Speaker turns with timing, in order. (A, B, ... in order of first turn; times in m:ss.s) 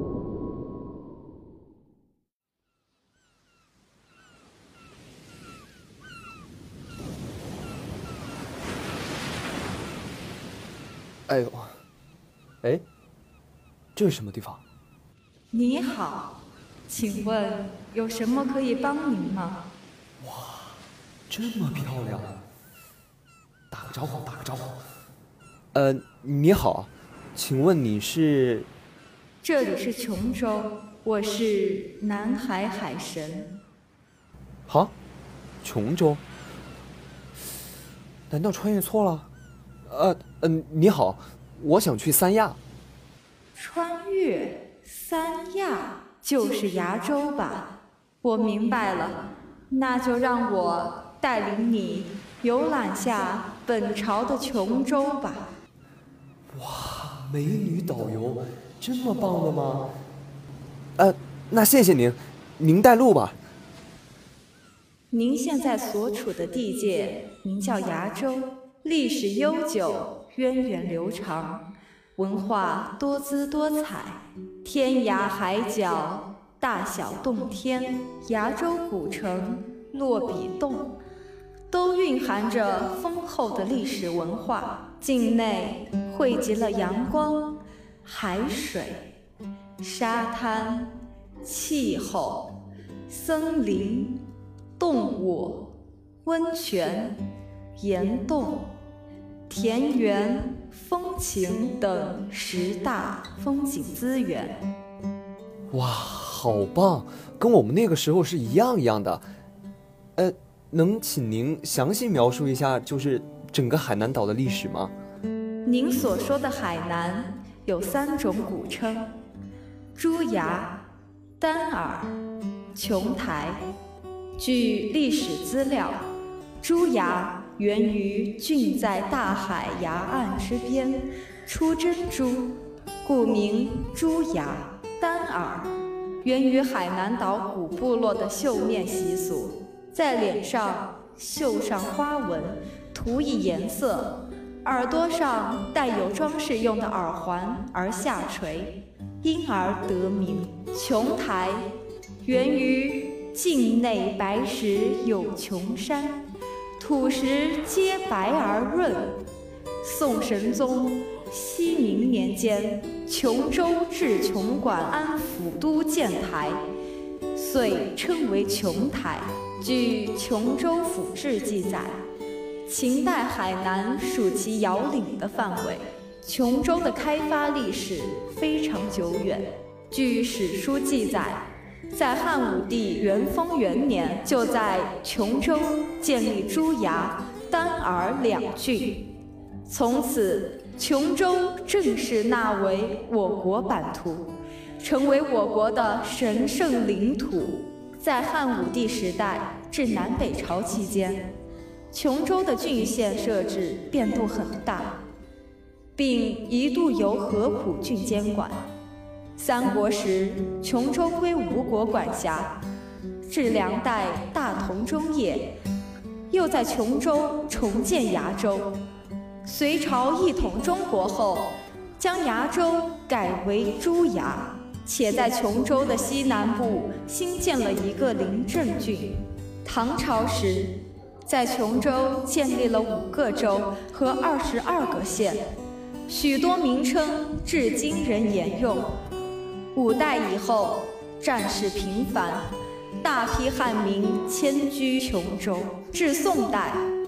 0:11.3-0:11.8 A
0:13.9-0:14.6 A
0:15.5-0:19.7 B
0:20.2-0:20.7 A
0:21.3-0:22.4 A
0:23.7-0:24.8 A
0:25.7-0:28.7 A
0:29.4-0:33.6 B
0:34.7-0:34.9 A
0:35.6-0:36.2 A
0:38.3-0:39.3 A
0:39.9-0:42.6 A
0:43.6-0:55.6 B
0:56.5-0:59.9 A
1:01.0-1:03.4 A
1:05.1-1:21.0 B
1:21.7-1:29.1 B
1:29.8-1:34.2 B
1:34.8-1:37.2 B
1:37.8-1:38.7 B
1:39.5-1:44.6 B
1:45.7-1:49.2 A
1:50.2-1:54.9 A
1:55.6-1:59.1 B
2:00.0-2:00.8 B
2:01.4-2:02.2 B
2:02.8-2:03.6 B
2:04.4-2:06.1 B
2:06.6-2:31.7 B
2:32.2-2:36.2 B
2:36.8-2:39.2 B
2:39.8-2:46.6 B
2:47.3-2:52.0 B
2:52.6-3:09.1 B
3:09.7-3:21.3 B
3:21.9-3:25.0 B
3:26.0-3:28.6 B
3:29.4-3:32.6 B
3:33.3-3:35.5 B
3:36.3-3:38.8 B
3:39.4-3:55.5 B
3:56.1-3:58.9 B
3:59.8-4:02.5 B
4:03.0-4:06.9 B